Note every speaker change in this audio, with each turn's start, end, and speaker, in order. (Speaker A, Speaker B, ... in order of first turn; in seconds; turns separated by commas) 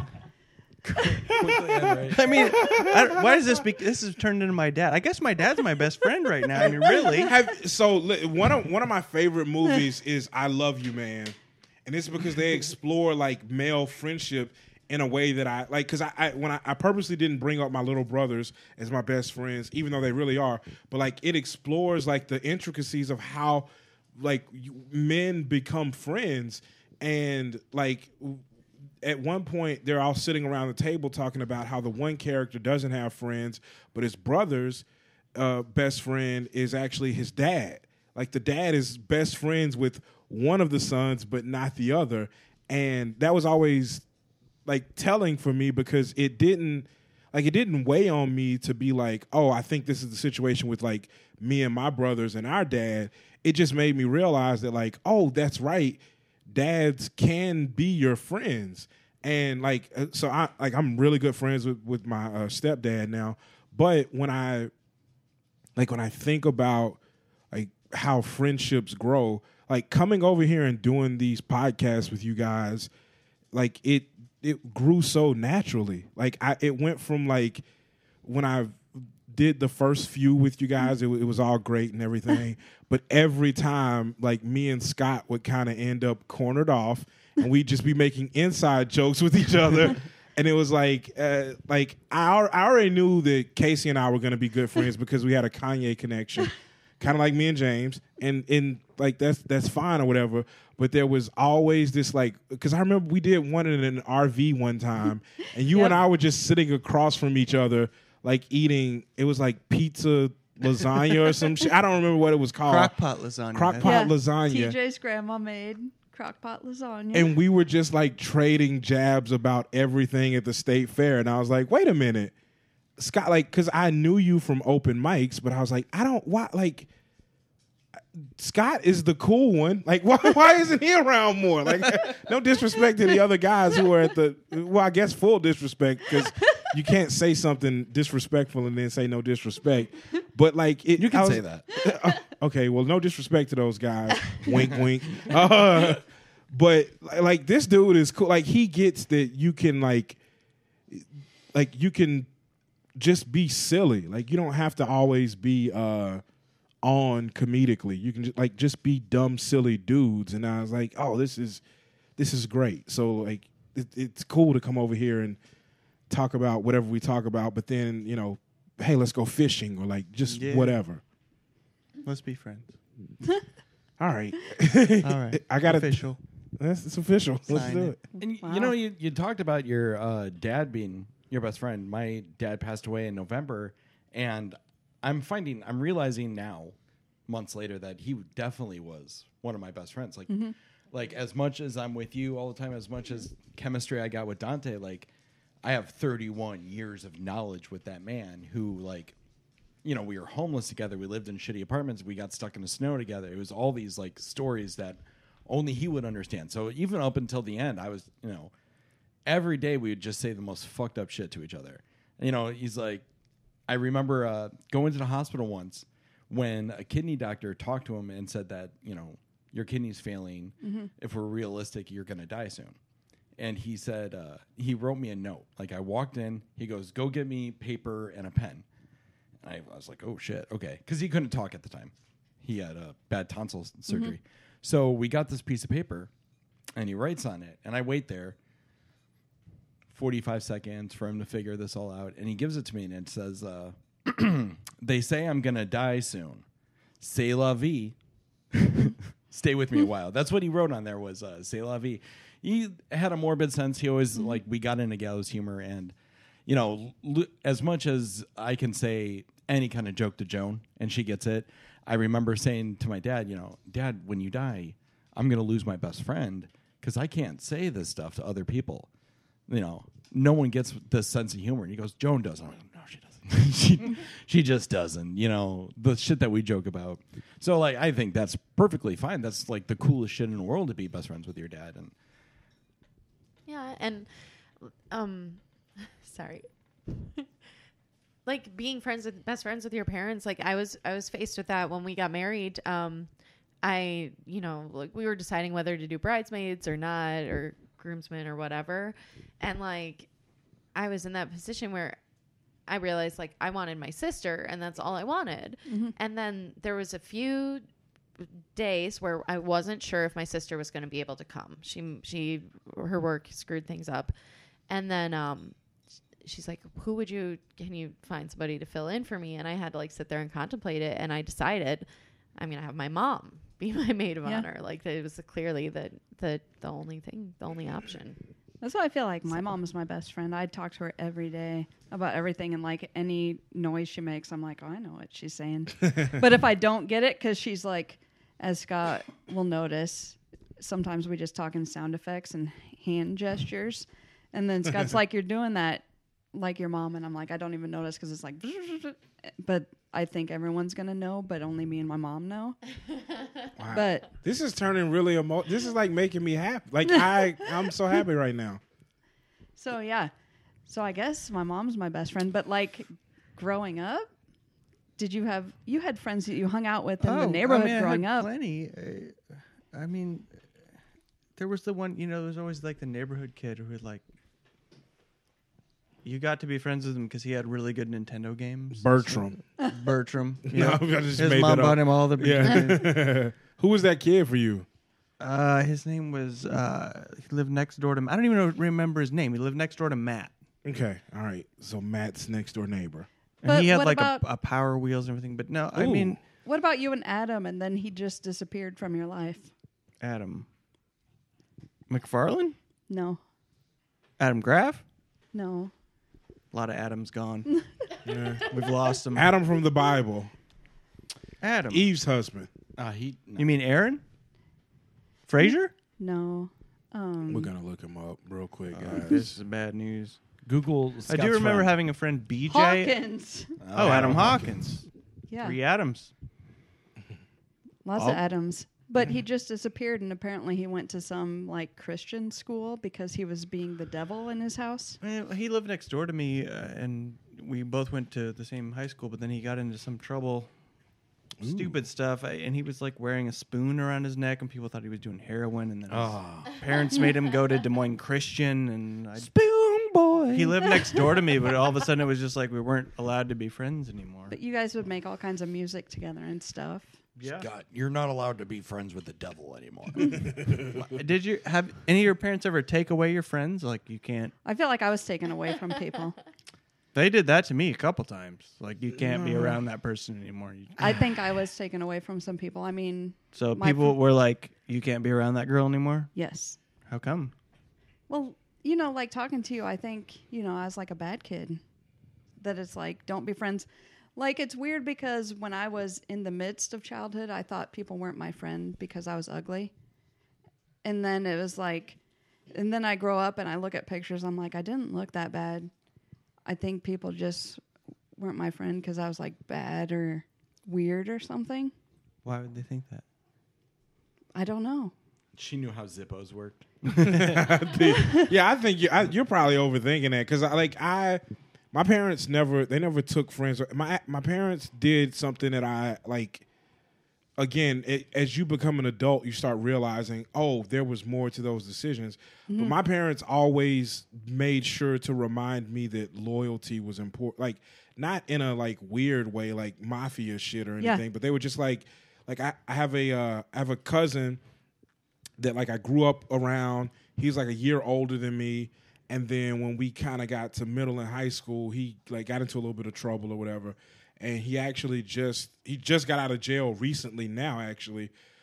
Speaker A: 0.8-2.5, Speaker B: 2.1-7.3, Speaker C: 2.4-3.5, Speaker C: 6.6-28.4, Speaker C: 29.0-34.8, Speaker C: 35.4-44.0, Speaker C: 44.6-64.7, Speaker C: 65.8-67.0, Speaker C: 67.5-72.9, Speaker C: 73.5-77.6, Speaker C: 78.2-112.9, Speaker B: 112.6-114.0, Speaker C: 113.5-114.8, Speaker D: 113.8-117.3, Speaker C: 117.1-122.3, Speaker C: 123.0-126.9, Speaker C: 128.4-150.2, Speaker A: 141.0-141.7, Speaker A: 144.4-145.3, Speaker C: 150.9-152.3, Speaker C: 152.9-156.2, Speaker C: 156.8-161.6, Speaker C: 162.2-165.4, Speaker C: 166.1-171.0, Speaker B: 170.2-170.8, Speaker B: 172.0-172.8, Speaker C: 174.0-176.0, Speaker B: 175.0-176.2, Speaker C: 176.6-178.0, Speaker B: 177.5-178.0, Speaker D: 178.2-178.7, Speaker A: 178.2-186.7, Speaker A: 187.3-195.1, Speaker D: 190.3-190.5, Speaker A: 195.6-199.1, Speaker A: 199.8-208.5, Speaker A: 209.2-213.0, Speaker A: 213.7-222.8, Speaker D: 220.6-220.9, Speaker A: 223.4-228.6, Speaker A: 229.4-236.1, Speaker D: 233.9-234.1, Speaker A: 236.8-238.4, Speaker A: 239.9-246.4, Speaker A: 247.0-247.9, Speaker A: 248.5-255.9, Speaker A: 256.4-268.9, Speaker A: 269.5-281.9, Speaker E: 283.4-287.3, Speaker E: 288.2-293.1, Speaker E: 293.6-300.1, Speaker E: 300.7-302.0, Speaker E: 302.7-307.6, Speaker D: 305.7-305.9, Speaker E: 308.5-314.1, Speaker E: 314.7-315.5, Speaker E: 316.2-328.2, Speaker D: 328.6-352.6, Speaker C: 353.6-358.6, Speaker D: 353.7-354.1, Speaker D: 359.6-360.1, Speaker D: 360.7-364.1, Speaker D: 365.0-368.3, Speaker B: 367.0-370.3, Speaker B: 371.4-374.0, Speaker B: 376.0-382.9, Speaker C: 378.8-379.4, Speaker C: 380.5-384.6, Speaker B: 385.2-390.3, Speaker C: 390.6-393.1, Speaker B: 393.4-396.2, Speaker D: 393.4-394.2, Speaker C: 395.7-396.2, Speaker D: 396.4-399.5, Speaker B: 400.0-400.4, Speaker B: 401.9-402.6, Speaker D: 402.9-403.2, Speaker B: 404.2-404.8, Speaker D: 405.3-405.7, Speaker B: 406.5-407.5, Speaker C: 408.0-408.5, Speaker B: 408.4-409.3, Speaker C: 409.1-410.3, Speaker B: 411.4-411.9, Speaker C: 411.7-412.5, Speaker A: 412.8-413.5, Speaker B: 413.4-414.0, Speaker B: 415.3-415.7, Speaker D: 415.4-417.5, Speaker C: 417.3-419.2, Speaker B: 418.7-420.2, Speaker A: 420.4-421.8, Speaker B: 421.1-423.0, Speaker D: 422.4-423.6, Speaker A: 423.6-424.6, Speaker B: 423.7-424.8, Speaker D: 425.3-425.6, Speaker B: 425.4-426.1, Speaker D: 427.8-435.0, Speaker B: 428.0-428.2, Speaker B: 435.0-440.5, Speaker B: 441.4-449.3, Speaker A: 445.9-446.9, Speaker A: 449.1-451.0, Speaker B: 450.3-454.4, Speaker D: 454.3-456.9, Speaker B: 457.2-457.5, Speaker A: 457.2-460.6, Speaker B: 460.5-464.3, Speaker D: 464.4-466.2, Speaker B: 466.9-471.1, Speaker D: 470.8-474.0, Speaker B: 473.3-476.1, Speaker D: 476.1-476.6, Speaker B: 476.9-477.3, Speaker D: 478.1-481.6, Speaker D: 482.4-489.7, Speaker D: 490.8-492.0, Speaker D: 492.5-495.7, Speaker D: 496.4-497.6, Speaker D: 498.1-501.7, Speaker B: 502.2-503.0, Speaker D: 504.3-504.9, Speaker A: 505.4-507.6, Speaker C: 507.0-511.2, Speaker D: 508.0-508.2, Speaker C: 511.7-516.4, Speaker C: 517.4-534.4, Speaker D: 522.5-522.7, Speaker C: 535.4-548.1